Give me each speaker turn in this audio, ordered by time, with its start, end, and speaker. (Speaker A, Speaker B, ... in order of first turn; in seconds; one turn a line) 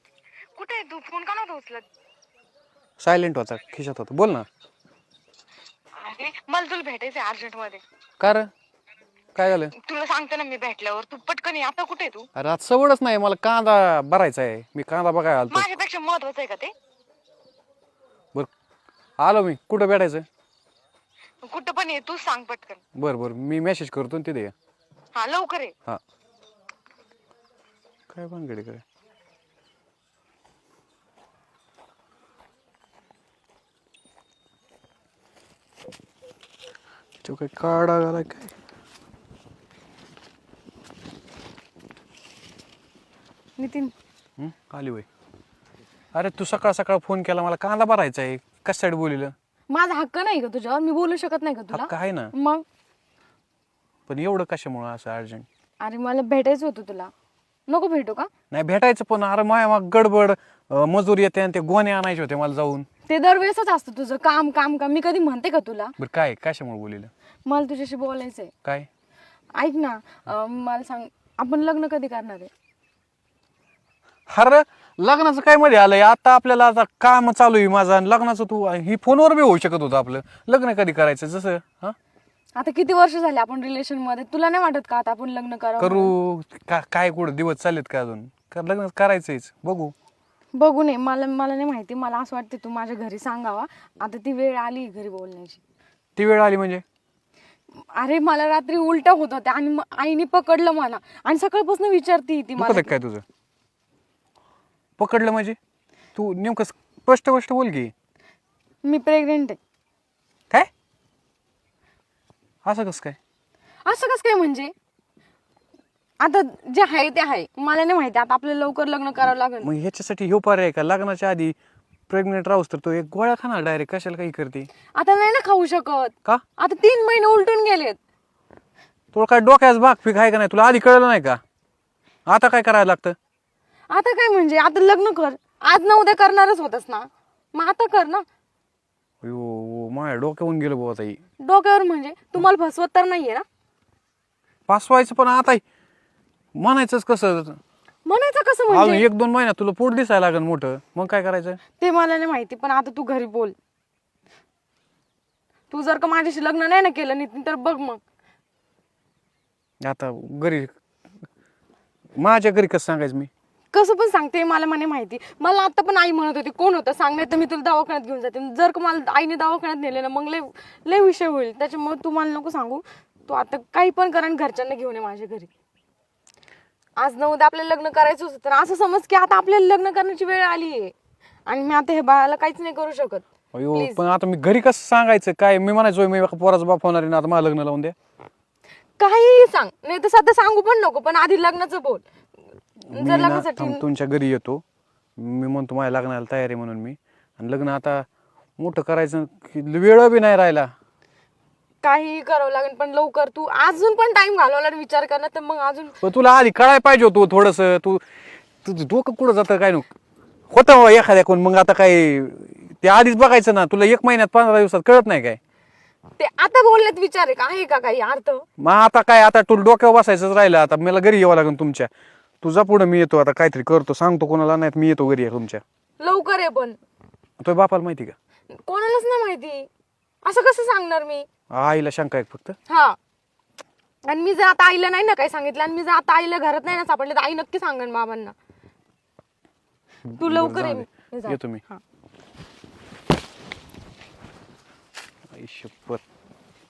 Speaker A: 0.6-1.8
Speaker B: 1.3-1.6
Speaker C: 3.0-4.5
Speaker A: 6.0-7.8
Speaker C: 8.2-8.5
Speaker C: 9.3-9.7
Speaker A: 9.8-12.2
Speaker C: 12.3-15.8
Speaker A: 15.5-16.7
Speaker C: 19.2-20.2
Speaker A: 21.5-22.8
Speaker C: 22.9-24.5
Speaker A: 25.2-25.7
Speaker C: 28.1-28.8
Speaker C: 37.2-38.5
Speaker B: 43.6-43.9
Speaker C: 44.4-45.1
Speaker C: 46.1-49.3
Speaker B: 49.7-52.6
Speaker C: 51.7-52.3
Speaker C: 54.1-55.5
Speaker B: 55.8-57.1
Speaker B: 57.7-58.3
Speaker C: 58.5-62.9
Speaker B: 63.1-65.9
Speaker C: 66.0-67.1
Speaker B: 67.5-68.5
Speaker B: 69.5-72.5
Speaker C: 74.3-82.0
Speaker B: 82.5-86.1
Speaker C: 85.8-89.9
Speaker B: 90.6-95.6
Speaker C: 96.2-96.8
Speaker B: 97.9-102.9
Speaker C: 102.6-103.2
Speaker C: 105.0-105.6
Speaker C: 106.2-107.9
Speaker B: 108.8-109.6
Speaker C: 112.6-113.2
Speaker B: 113.8-114.7
Speaker B: 116.2-119.7
Speaker C: 119.6-121.5
Speaker C: 122.1-124.7
Speaker B: 124.9-128.0
Speaker C: 129.1-131.4
Speaker C: 132.2-133.2
Speaker B: 133.9-138.2
Speaker C: 139.2-141.2
Speaker B: 141.4-143.4
Speaker C: 144.7-145.6
Speaker C: 146.5-147.6
Speaker B: 148.0-149.1
Speaker C: 148.7-151.6
Speaker B: 151.8-153.6
Speaker B: 155.7-158.0
Speaker C: 159.8-160.7
Speaker C: 162.2-163.3
Speaker B: 163.7-175.5
Speaker B: 177.0-180.9
Speaker B: 181.4-184.0
Speaker C: 183.5-187.9
Speaker B: 189.0-192.0
Speaker C: 192.9-194.6
Speaker B: 192.9-193.8
Speaker C: 195.2-198.1
Speaker C: 198.6-200.7
Speaker B: 201.8-206.0
Speaker C: 206.0-208.0
Speaker C: 208.6-209.9
Speaker C: 210.5-215.4
Speaker B: 216.2-218.4
Speaker C: 218.6-221.9
Speaker C: 222.4-225.6
Speaker B: 226.0-226.8
Speaker C: 227.4-228.1
Speaker B: 228.5-229.7
Speaker B: 230.2-231.3
Speaker C: 231.5-232.6
Speaker B: 232.7-233.0
Speaker B: 234.1-238.3
Speaker C: 240.1-241.6
Speaker B: 240.2-241.8
Speaker C: 245.3-246.0